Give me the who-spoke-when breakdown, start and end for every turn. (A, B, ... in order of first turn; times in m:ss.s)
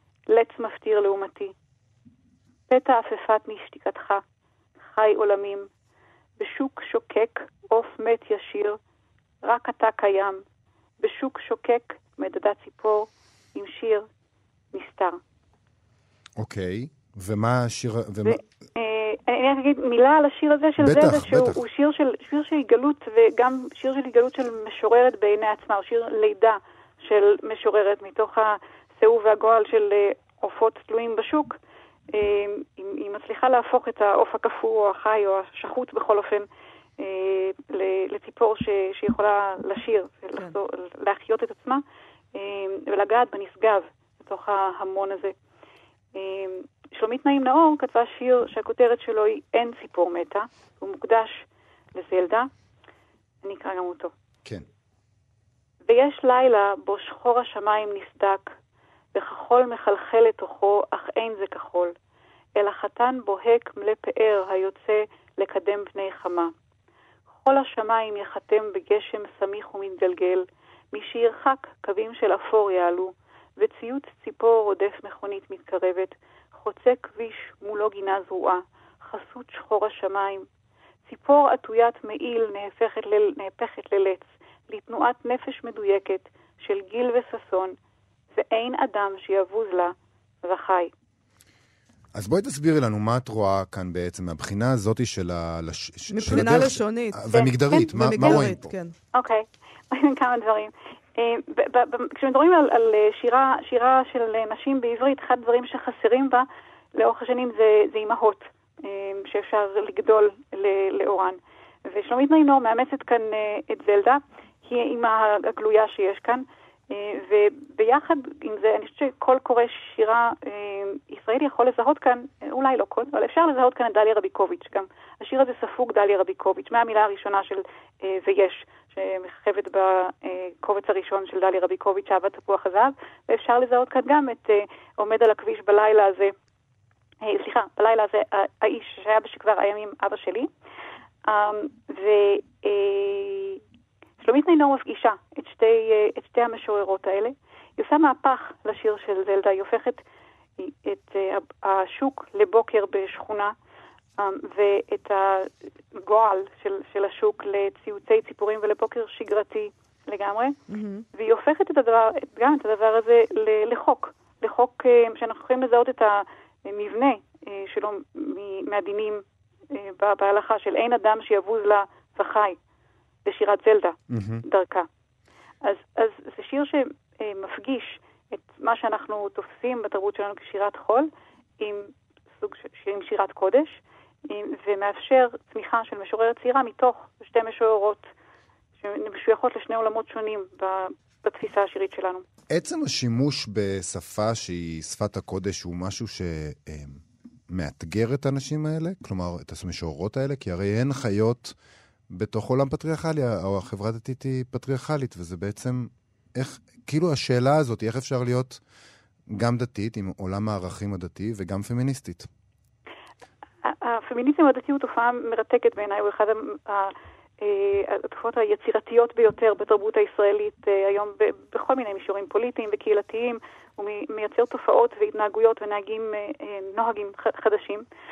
0:00.3-0:01.5 A
0:02.7-0:04.2 A
0:04.9-0:05.7 A
0:06.4-0:08.8 A
0:09.4-0:10.4 A
0:11.0-0:14.1 A
0:14.7-0:15.2 A
0:16.4-0:18.4 B
0:18.2-0:31.6 A
0:20.8-0:21.6 B
0:32.1-0:36.5 A
0:37.0-0:41.8 A
0:42.3-0:45.3 A
0:46.1-0:52.5 A
0:53.4-0:54.1 A
0:55.9-0:58.5 A
0:59.1-1:01.9 A
1:02.6-1:06.5 A
1:07.4-1:20.4 A
1:21.1-1:27.7 A
1:28.3-1:30.9 A
1:32.1-1:38.7 B
1:36.1-1:37.2 C
1:37.3-1:38.5 A
1:37.7-1:38.9 C
1:39.1-2:16.3 A
2:17.2-2:20.5 A
2:21.3-2:23.6 A
2:24.2-2:30.0 A
2:30.6-2:33.5 A
2:34.2-2:40.6 A
2:40.7-2:41.0 C
2:41.1-2:52.6 A
2:53.2-2:54.9 A
2:54.1-2:54.4 B
2:55.6-3:01.1 A
3:01.6-3:08.1 A
3:08.8-3:12.2 A
3:12.5-3:21.5 B
3:22.1-3:28.6 B
3:29.3-3:32.3 B
3:33.6-3:47.8 A